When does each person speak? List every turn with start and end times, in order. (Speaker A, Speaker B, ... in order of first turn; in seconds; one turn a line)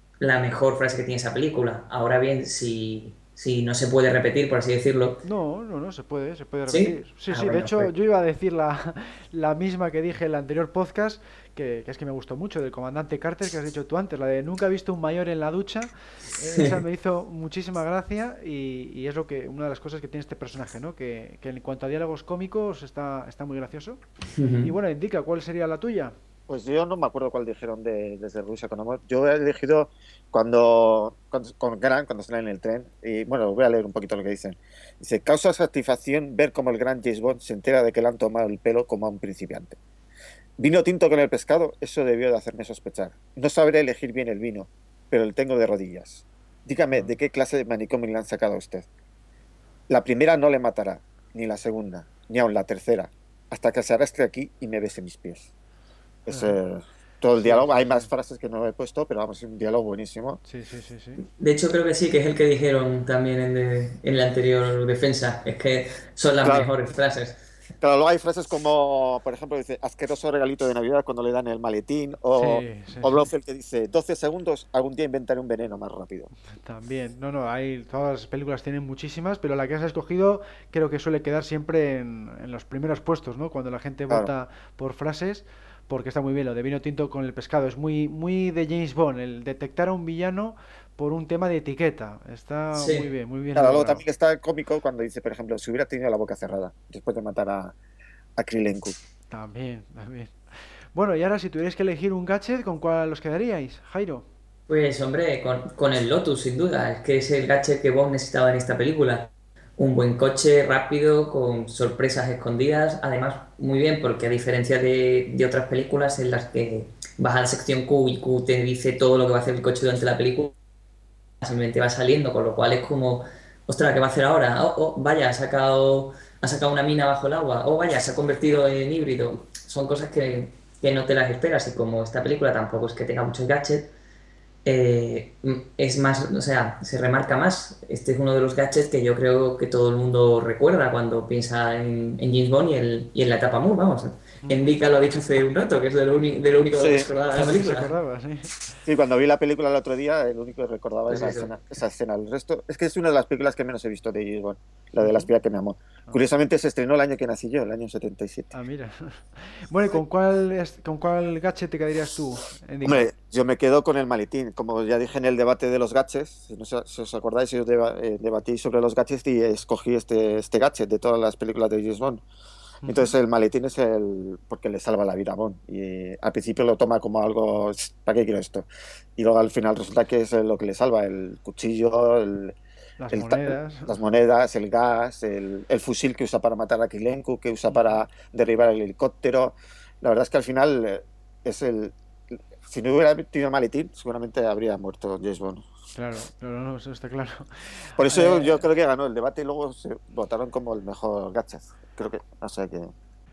Speaker A: 0.2-5.2
Speaker B: 5.2-24.0
Speaker A: 6.7-7.9
Speaker A: 24.4-24.7
Speaker B: 24.6-26.1
Speaker C: 26.5-39.8
Speaker C: 40.6-48.9
Speaker C: 49.9-55.5
Speaker C: 56.2-60.4
Speaker B: 56.3-56.6
Speaker B: 57.4-58.1
Speaker B: 60.4-61.2
Speaker A: 61.4-67.4
Speaker C: 66.4-66.7
Speaker C: 67.8-76.3
Speaker B: 72.3-73.3
Speaker B: 76.6-94.0
Speaker A: 92.7-93.1
Speaker C: 93.5-97.7
Speaker C: 98.4-99.0
Speaker B: 99.3-100.3
Speaker B: 100.9-104.2
Speaker A: 104.7-120.5
Speaker A: 121.4-133.9
Speaker A: 134.6-147.9
Speaker C: 146.8-147.1
Speaker B: 147.3-148.8
Speaker C: 148.8-158.5
Speaker A: 151.1-151.5
Speaker B: 155.0-155.3
Speaker B: 158.5-163.1
Speaker C: 162.8-172.2
Speaker B: 172.8-173.1
Speaker C: 172.8-182.6
Speaker B: 183.0-183.9
Speaker C: 183.1-191.9
Speaker B: 187.7-188.0
Speaker C: 192.6-195.7
Speaker B: 195.9-198.6
Speaker C: 197.9-202.9